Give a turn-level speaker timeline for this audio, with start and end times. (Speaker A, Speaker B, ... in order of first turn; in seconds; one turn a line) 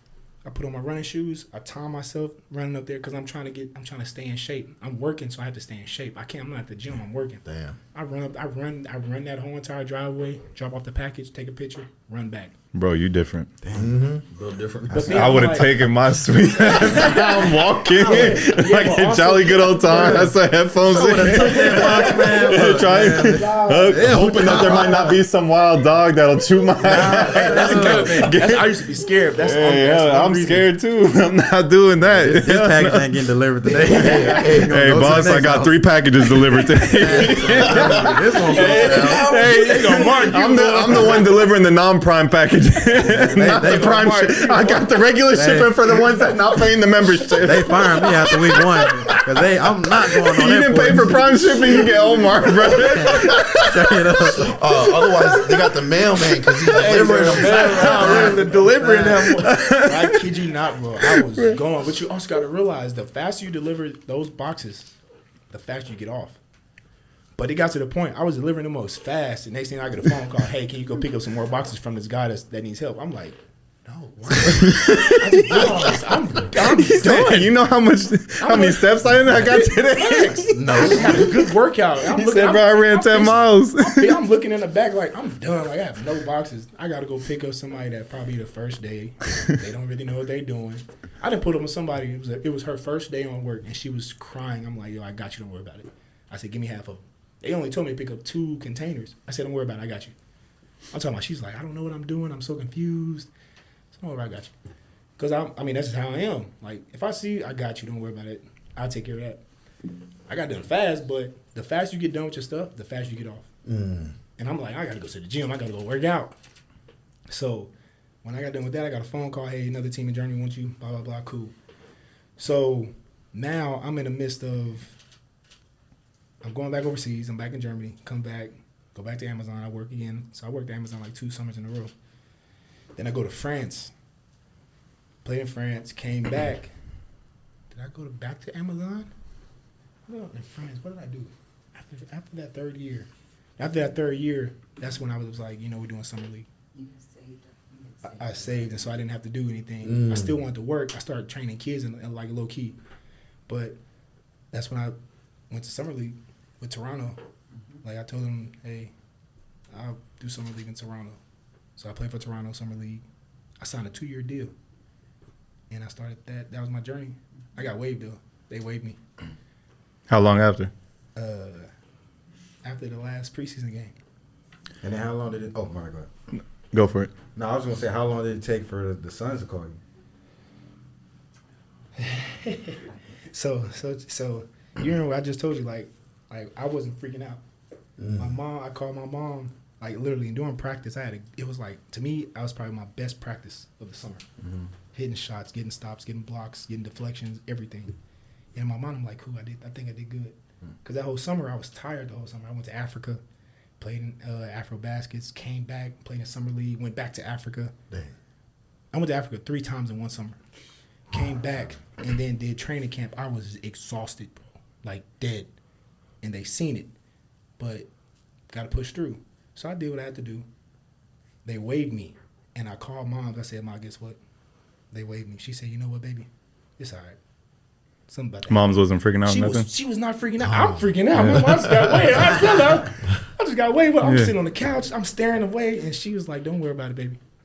Speaker A: 0.4-12.6
Speaker B: 7.5-7.8
Speaker C: 12.7-13.5
Speaker D: 13.6-14.0
Speaker B: 13.7-15.5
Speaker D: 14.9-15.4
Speaker A: 14.9-15.9
Speaker C: 15.1-28.6
Speaker A: 16.6-20.3
Speaker B: 16.9-17.4
Speaker D: 19.9-25.2
Speaker A: 21.5-22.2
Speaker A: 23.2-24.8
Speaker D: 26.8-28.3
Speaker A: 26.9-30.7
Speaker C: 29.4-33.1
Speaker D: 32.0-35.8
Speaker B: 33.9-35.4
Speaker C: 33.9-54.1
Speaker D: 36.6-39.3
Speaker A: 37.1-41.3
Speaker B: 37.7-38.1
Speaker D: 43.0-44.1
Speaker A: 43.3-44.9
Speaker D: 45.3-46.3
Speaker D: 47.4-54.6
Speaker B: 54.4-58.6
Speaker A: 56.6-64.9
Speaker C: 56.7-58.3
Speaker D: 56.8-59.5
Speaker C: 59.2-60.2
Speaker C: 61.1-61.6
Speaker A: 65.5-66.4
Speaker A: 67.4-77.5
Speaker C: 74.4-75.8
Speaker C: 76.5-81.4
Speaker A: 78.4-100.2
Speaker D: 80.5-81.3
Speaker C: 82.0-84.2
Speaker A: 100.9-103.3
Speaker A: 103.9-104.5
Speaker A: 105.2-109.4
Speaker A: 110.3-113.5
Speaker B: 113.7-114.2
Speaker A: 114.4-116.4
Speaker A: 117.3-117.7
Speaker A: 118.2-121.5
Speaker A: 122.4-125.0
Speaker A: 126.4-131.9
Speaker A: 133.0-133.9
Speaker A: 135.2-136.7
Speaker A: 137.7-139.1
Speaker A: 140.1-146.5
Speaker E: 146.7-148.9
Speaker A: 148.0-152.8
Speaker B: 149.8-150.4
Speaker A: 153.5-153.8
Speaker A: 154.5-154.9
Speaker A: 155.5-157.2
Speaker A: 157.8-158.9
Speaker A: 159.7-161.2
Speaker A: 161.8-163.0
Speaker A: 163.6-164.5
Speaker A: 165.7-169.0
Speaker C: 170.1-170.7
Speaker A: 171.2-171.7
Speaker A: 172.6-173.9
Speaker D: 174.8-176.1
Speaker C: 176.7-177.1
Speaker D: 177.3-179.8
Speaker A: 182.0-182.8
Speaker A: 183.3-187.4
Speaker B: 188.0-188.4
Speaker A: 188.2-194.2
Speaker D: 194.4-194.7
Speaker A: 194.9-197.9
Speaker A: 198.5-203.2
Speaker A: 203.8-207.7
Speaker A: 208.9-210.4
Speaker A: 211.1-215.5
Speaker A: 216.2-216.9
Speaker A: 217.6-217.9
Speaker A: 218.5-220.5
Speaker A: 221.4-224.2
Speaker A: 224.9-227.2
Speaker A: 228.1-237.2
Speaker C: 228.5-229.7
Speaker B: 230.4-232.3
Speaker C: 234.0-234.3